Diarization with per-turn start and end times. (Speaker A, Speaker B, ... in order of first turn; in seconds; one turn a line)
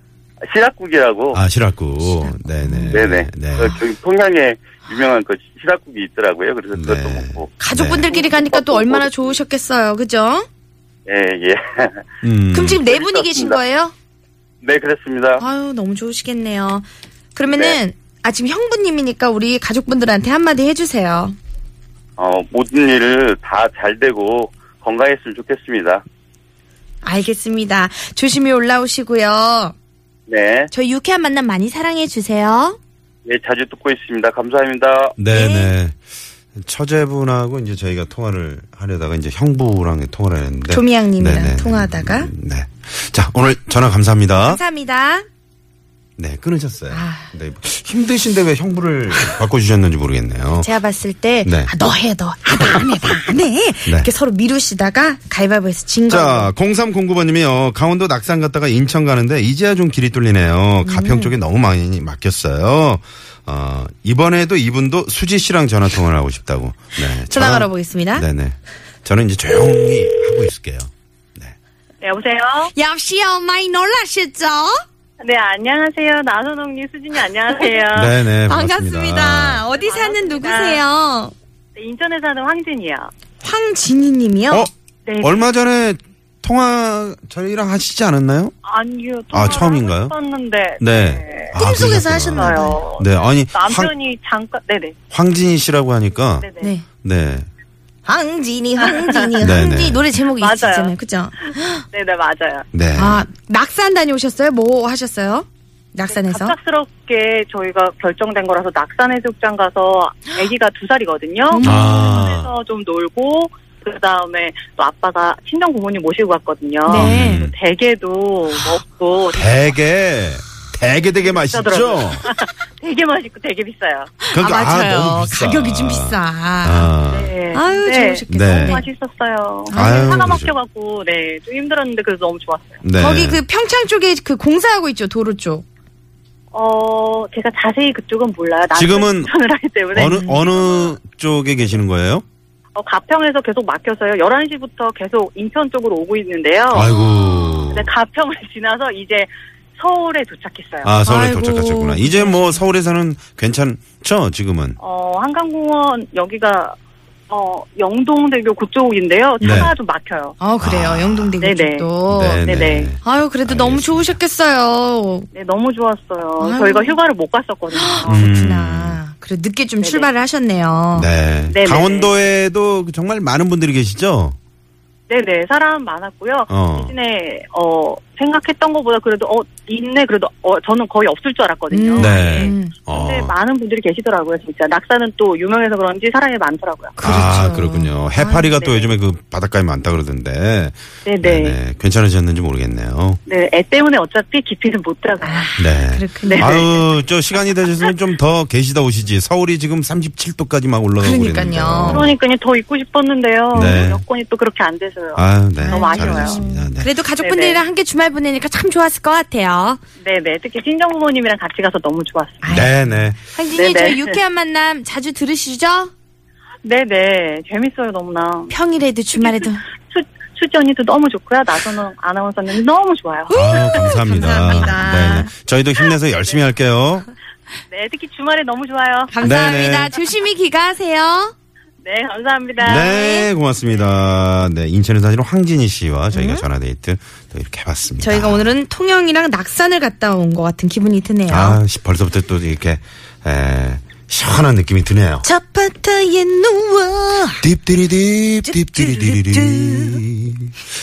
Speaker A: 0.4-1.4
Speaker B: 1.3-3.8
Speaker C: 2.0-3.1
Speaker A: 2.9-7.5
Speaker B: 6.7-8.1
Speaker C: 7.6-10.5
Speaker A: 8.0-9.4
Speaker A: 11.1-12.1
Speaker B: 12.2-12.9
Speaker C: 12.5-13.9
Speaker A: 12.9-13.6
Speaker A: 14.6-15.4
Speaker C: 15.4-21.4
Speaker A: 17.5-17.8
Speaker A: 22.2-26.0
Speaker C: 27.0-29.7
Speaker A: 30.3-30.7
Speaker C: 30.7-32.8
Speaker A: 33.3-35.2
Speaker B: 35.2-36.0
Speaker C: 35.3-35.8
Speaker B: 36.5-44.6
Speaker C: 40.7-42.3
Speaker C: 44.4-45.3
Speaker B: 46.2-50.7
Speaker C: 46.9-47.3
Speaker C: 50.6-56.5
Speaker B: 51.5-51.7
Speaker B: 56.1-71.5
Speaker C: 60.8-61.3
Speaker C: 67.2-68.3
Speaker D: 72.0-72.7
Speaker C: 72.7-74.8
Speaker D: 75.2-78.2
Speaker B: 77.9-79.7
Speaker C: 78.5-81.3
Speaker D: 79.8-80.8
Speaker D: 81.8-83.1
Speaker C: 83.4-84.7
Speaker B: 84.5-88.6
Speaker D: 85.1-85.5
Speaker D: 88.7-95.0
Speaker B: 89.3-90.2
Speaker B: 90.8-93.9
Speaker C: 91.5-92.8
Speaker B: 95.1-96.5
Speaker D: 96.4-96.7
Speaker C: 96.6-96.9
Speaker B: 97.0-97.5
Speaker C: 98.0-101.8
Speaker B: 99.4-100.0
Speaker D: 100.4-101.0
Speaker D: 101.9-102.7
Speaker B: 102.7-103.2
Speaker C: 103.0-106.5
Speaker D: 106.1-119.8
Speaker C: 111.5-112.2
Speaker B: 111.6-112.5
Speaker C: 116.8-117.5
Speaker B: 116.9-117.5
Speaker B: 119.3-122.3
Speaker D: 121.3-124.1
Speaker C: 124.2-126.9
Speaker B: 124.3-127.3
Speaker D: 127.1-132.8
Speaker C: 127.5-128.8
Speaker B: 128.3-128.8
Speaker C: 129.7-130.3
Speaker B: 129.7-130.5
Speaker B: 132.8-133.4
Speaker C: 133.0-135.7
Speaker D: 136.5-140.9
Speaker B: 138.7-139.3
Speaker B: 139.9-142.2
Speaker D: 142.8-150.9
Speaker B: 146.7-147.9
Speaker B: 150.8-154.8
Speaker C: 151.0-152.6
Speaker D: 154.8-156.8
Speaker D: 157.3-160.4
Speaker C: 159.4-159.7
Speaker B: 159.4-159.7
Speaker C: 160.4-162.4
Speaker B: 160.6-161.4
Speaker D: 161.4-161.9
Speaker B: 162.1-164.2
Speaker D: 162.4-162.9
Speaker C: 163.0-165.3
Speaker D: 165.3-168.2
Speaker C: 166.4-167.0
Speaker C: 167.7-171.1
Speaker B: 168.1-169.0
Speaker D: 169.8-170.1
Speaker B: 170.9-174.4
Speaker D: 171.5-172.1
Speaker D: 175.1-187.0
Speaker B: 176.5-176.9
Speaker C: 181.7-182.8
Speaker B: 182.0-183.3
Speaker C: 187.0-188.5
Speaker B: 187.0-193.2
Speaker D: 188.6-188.9
Speaker D: 191.1-191.6
Speaker D: 193.3-195.5
Speaker C: 195.2-196.9
Speaker B: 195.6-202.2
Speaker D: 196.3-196.7
Speaker C: 201.0-202.1
Speaker D: 201.9-206.4
Speaker B: 203.5-204.0
Speaker C: 203.5-203.8
Speaker B: 205.2-206.9
Speaker C: 205.6-209.8
Speaker D: 207.2-207.6
Speaker D: 210.0-212.6
Speaker C: 212.4-215.9
Speaker B: 212.5-213.2
Speaker D: 213.6-214.2
Speaker D: 216.6-218.5
Speaker C: 218.5-219.7
Speaker D: 219.2-223.8
Speaker C: 223.3-225.3
Speaker B: 223.3-227.1
Speaker D: 227.7-229.2
Speaker C: 229.1-231.3
Speaker B: 229.2-229.9
Speaker D: 231.8-232.9
Speaker B: 232.6-238.6
Speaker C: 232.6-233.3
Speaker C: 236.1-236.5
Speaker C: 238.0-241.6
Speaker B: 241.3-245.2
Speaker C: 245.2-247.4
Speaker B: 247.4-250.5
Speaker C: 248.4-250.0